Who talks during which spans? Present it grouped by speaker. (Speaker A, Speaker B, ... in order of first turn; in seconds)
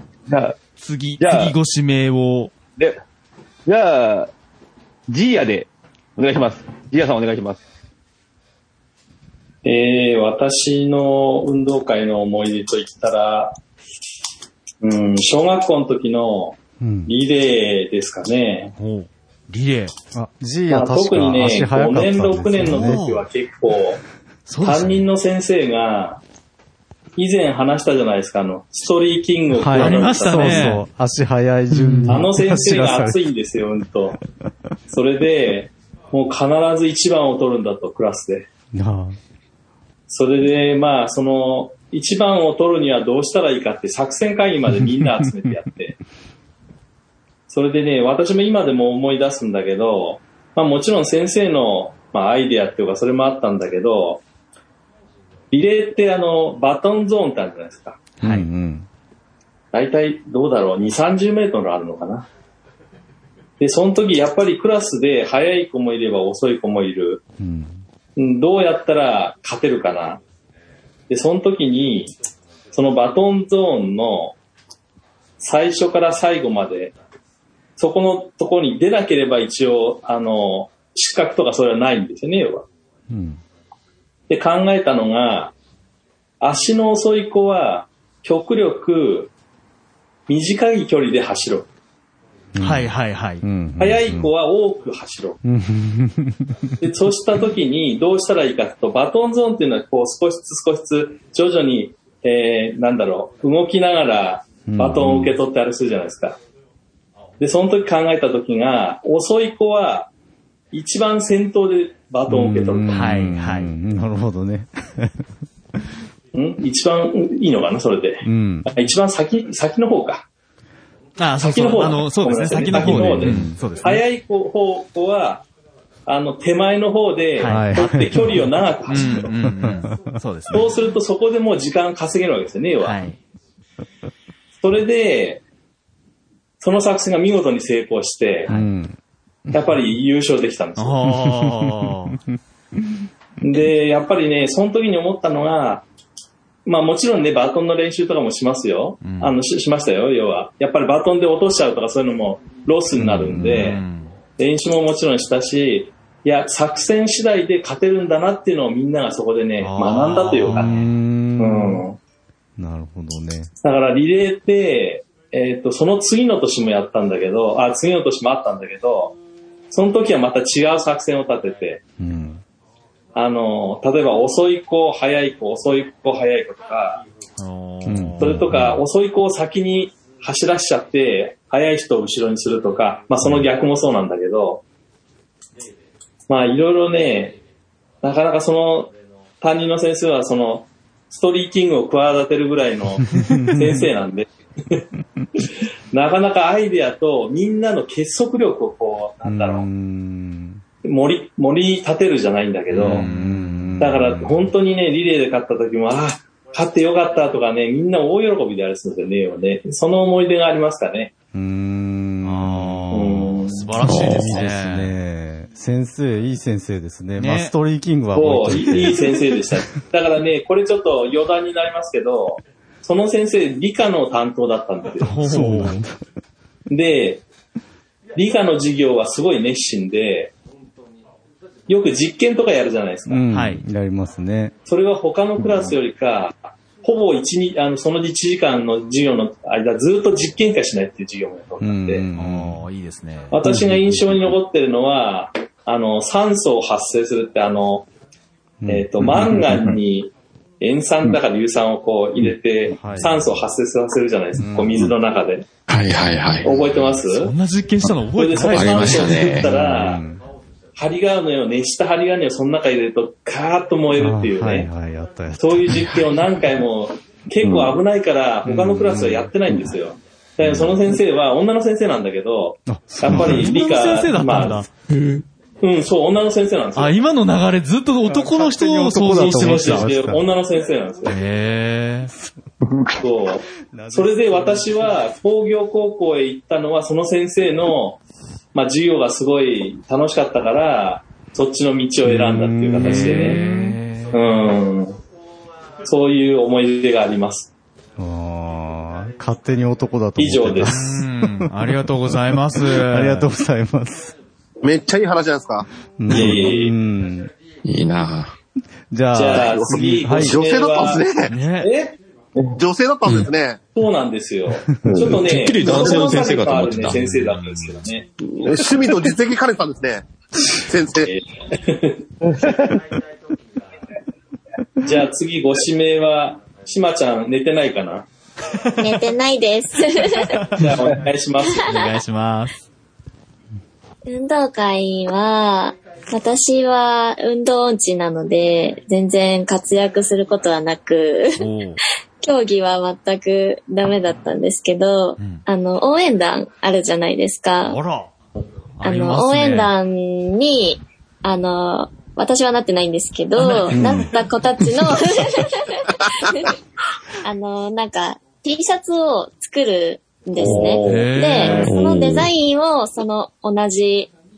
Speaker A: 0.3-0.6, 1.2-1.5, 3.7-4.3, 5.1-7.6, 322.2-322.8
Speaker B: 0.8-2.5, 18.8-19.9, 22.6-23.3, 24.5-25.1, 29.8-30.8, 58.2-58.5, 92.6-93.5, 112.9-113.7, 121.2-124.0, 127.4-127.8, 128.9-130.7, 132.8-133.2, 140.8-142.2, 149.0-149.3, 153.3-154.1, 159.6-160.9, 177.4-178.7, 202.8-203.7, 212.2-214.9, 217.2-217.5, 218.5-219.0, 225.1-225.8, 233.3-233.6, 242.2-243.4, 256.9-259.3, 273.1-274.7, 276.8-279.9, 281.1-282.1, 292.8-294.2, 300.6-303.3, 311.3-311.7, 316.8-317.8, 330.3-330.6, 331.6-332.6, 341.4-341.8, 345.2-345.4, 347.7-348.1, 348.8-349.7, 353.4-354.0, 360.8-361.7
Speaker C: 9.6-13.6, 14.8-18.7, 20.7-24.0, 24.6-26.2, 27.2-30.8, 32.1-34.2, 34.9-38.5, 40.1-46.0, 47.5-54.2, 55.5-58.0, 59.7-62.3, 63.6-67.2, 68.2-70.2, 71.1-72.1, 72.7-74.4, 75.4-76.9, 77.8-82.7, 84.3-85.5, 86.4-89.3, 90.3-91.7, 93.8-95.4, 96.8-106.4, 107.4-110.1, 110.7-113.0, 116.3-120.3, 121.4-125.5, 126.1-129.3, 130.5-133.0, 134.6-135.4, 136.6-138.5, 139.5-141.0, 143.4-145.9, 146.7-153.8, 154.4-160.8, 161.4-162.0, 163.6-169.2, 169.7-171.8, 173.2-177.0, 178.2-184.6, 186.3-187.4, 188.0-194.8, 195.9-199.7, 200.8-203.1, 203.8-211.1, 212.9-213.7, 218.1-225.1, 226.7-227.2, 228.2-230.3, 231.7-233.2, 234.7-242.1, 243.3-247.9, 248.7-255.5, 256.4-257.3, 258.1-260.0, 260.8-264.7, 265.4-274.6, 275.6-277.0, 279.2-281.2, 283.0-288.0, 288.5-293.4, 294.1-295.0, 295.8-297.5, 300.2-300.8, 306.1-306.7, 309.1-311.1, 311.6-312.0, 313.8-318.1, 321.1-322.0, 324.8-328.1, 330.6-331.7, 360.4-361.7
Speaker D: 16.8-17.1, 20.1-23.0, 29.6-33.2, 38.7-39.2, 58.2-58.9, 67.4-67.8, 83.1-83.4, 92.5-94.3, 95.4-96.6, 104.7-105.3, 112.3-115.2, 118.2-118.7, 122.7-123.5, 127.5-128.4, 129.3-130.2, 138.5-139.0, 141.1-142.1, 153.0-153.7, 160.5-161.8, 162.6-163.5, 172.0-172.4, 177.9-178.7, 193.2-193.6, 199.2-200.6, 202.8-204.5, 211.3-213.3, 213.9-219.2, 225.2-226.0, 233.1-234.5, 241.6-242.6, 248.6-248.9, 252.7-253.4, 254.4-254.9, 259.4-260.2, 263.9-265.9, 268.5-269.3, 270.4-270.8, 272.7-273.6, 278.1-280.2, 283.7-285.0, 292.0-293.8, 298.0-304.1, 306.0-307.3, 308.9-310.4
Speaker E: 213.8-214.3, 255.7-256.6, 258.5-259.5, 274.9-275.2, 306.2-306.4, 307.6-308.3, 315.1-317.0, 361.6-362.3
Speaker F: 304.6-305.7, 309.3-311.3, 312.6-313.6, 318.3-321.1
Speaker G: 328.8-330.4, 334.1-341.4, 342.2-347.8, 348.8-356.5, 357.2-364.1